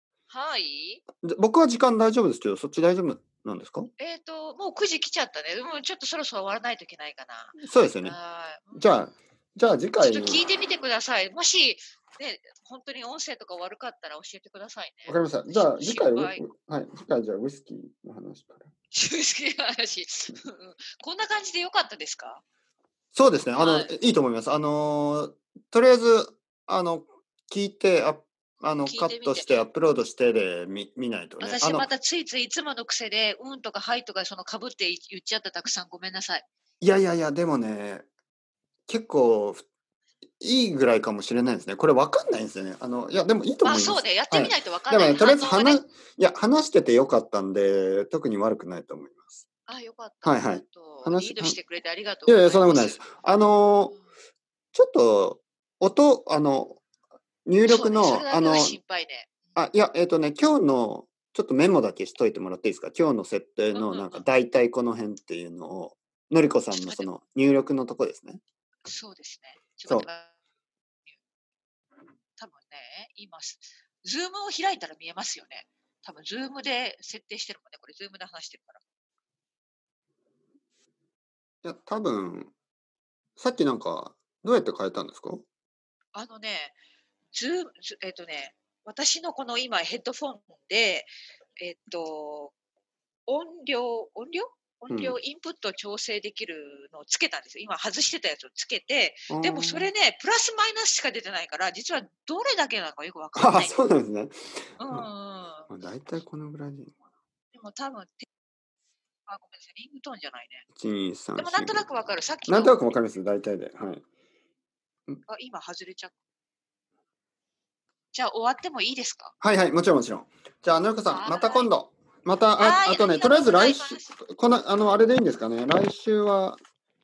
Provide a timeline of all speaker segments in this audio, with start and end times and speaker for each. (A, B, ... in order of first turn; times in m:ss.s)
0:00.3-0:01.1 A
0:01.2-0:03.9 B
0:04.0-0:08.9 A
0:07.6-0:08.2 B
0:08.8-0:10.4 B
0:10.0-0:16.4 A
0:15.1-0:18.7 B
0:18.9-0:22.4 A
0:23.1-0:31.9 B
0:23.6-0:24.0 A
0:28.8-0:29.6 A
0:31.4-0:36.5 A
0:36.8-0:38.0 B
0:38.9-0:39.6 B
0:40.4-0:49.4 B
0:43.6-0:45.9 A
0:49.7-0:53.2 A
0:50.2-0:51.6 B
0:52.3-0:54.0 B
0:54.7-0:56.8 B
0:57.5-0:58.8 B
0:57.6-0:59.6 A
0:59.6-1:08.4 B
1:03.7-1:04.2 A
1:06.7-1:07.1 A
1:08.9-1:10.4 A
1:12.4-1:18.8 A
1:21.6-1:22.5 B
1:23.4-1:25.4 B
1:26.1-1:26.8 A
1:27.3-1:32.5 A
1:33.3-1:43.8 A
1:34.9-1:35.2 B
1:39.3-1:39.9 B
1:43.4-1:44.3 B
1:44.8-1:45.7 A
1:45.7-1:46.9 B
1:47.5-1:48.3 A
1:49.3-1:50.7 A
1:50.8-1:51.9 B
1:51.4-1:53.0 A
1:52.5-1:54.0 B
1:55.3-1:56.1 A
1:58.1-1:59.4 A
1:59.4-2:06.6 B
2:01.1-2:01.7 A
2:02.6-2:04.2 A